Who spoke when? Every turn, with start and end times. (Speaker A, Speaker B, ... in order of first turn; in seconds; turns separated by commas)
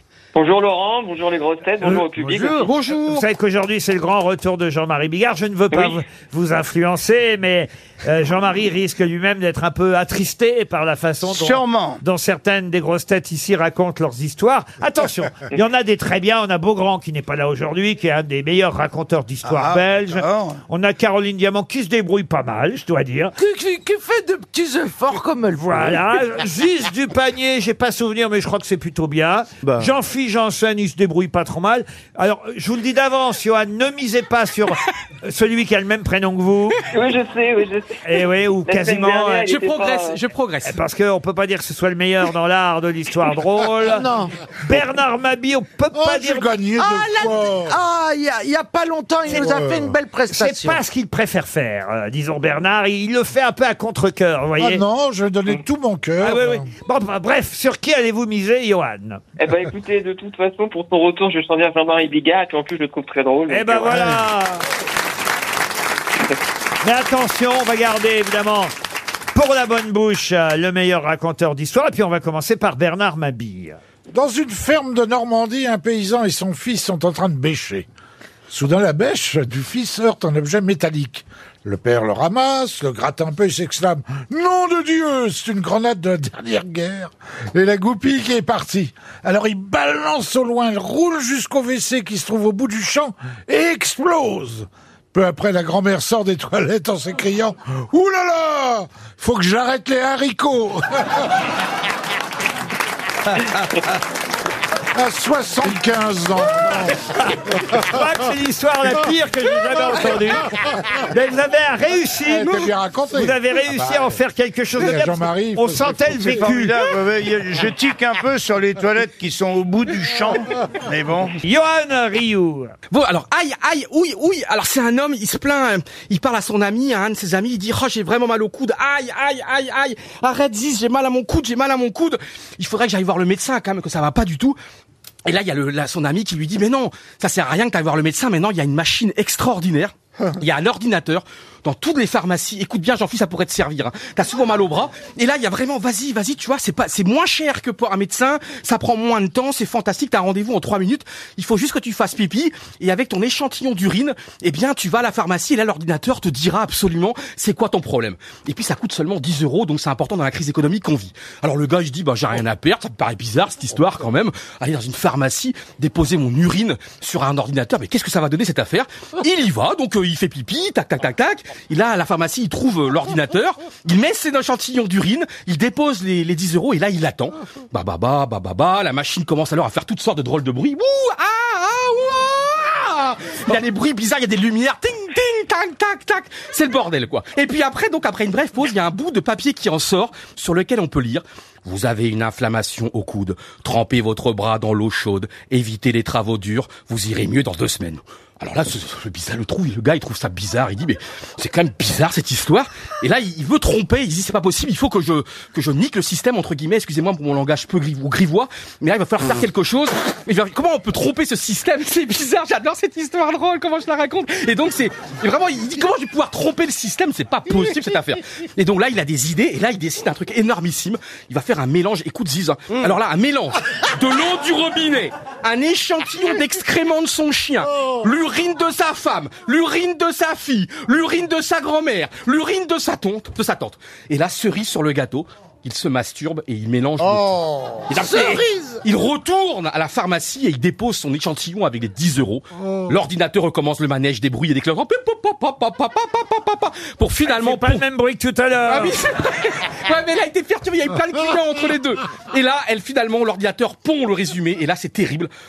Speaker A: 0.3-2.6, Speaker B: 1.8-23.3, Speaker C: 2.4-3.2, Speaker D: 11.2-12.0, Speaker D: 19.4-20.6, Speaker E: 23.4-26.0, Speaker B: 25.6-36.8, Speaker A: 36.9-37.9, Speaker B: 38.0-39.6, Speaker A: 38.7-39.9, Speaker C: 39.4-40.8, Speaker B: 40.6-44.1, Speaker E: 43.8-44.3, Speaker B: 44.6-46.5, Speaker F: 45.9-47.8, Speaker E: 46.8-50.8, Speaker F: 49.3-50.0, Speaker B: 50.3-54.8, Speaker F: 54.6-56.7, Speaker B: 56.2-59.2, Speaker A: 59.4-63.9, Speaker B: 63.5-64.6, Speaker F: 63.9-64.2, Speaker B: 66.8-68.7, Speaker B: 69.3-73.8, Speaker F: 74.1-77.8, Speaker F: 78.5-100.8, Speaker F: 104.9-107.0, Speaker B: 107.2-116.8, Speaker F: 112.2-114.2, Speaker F: 114.8-116.5, Speaker D: 116.2-121.3, Speaker B: 121.4-122.7, Speaker C: 122.9-134.6, Speaker C: 135.2-247.8, Speaker E: 237.1-238.8, Speaker B: 247.2-248.9, Speaker C: 248.7-255.3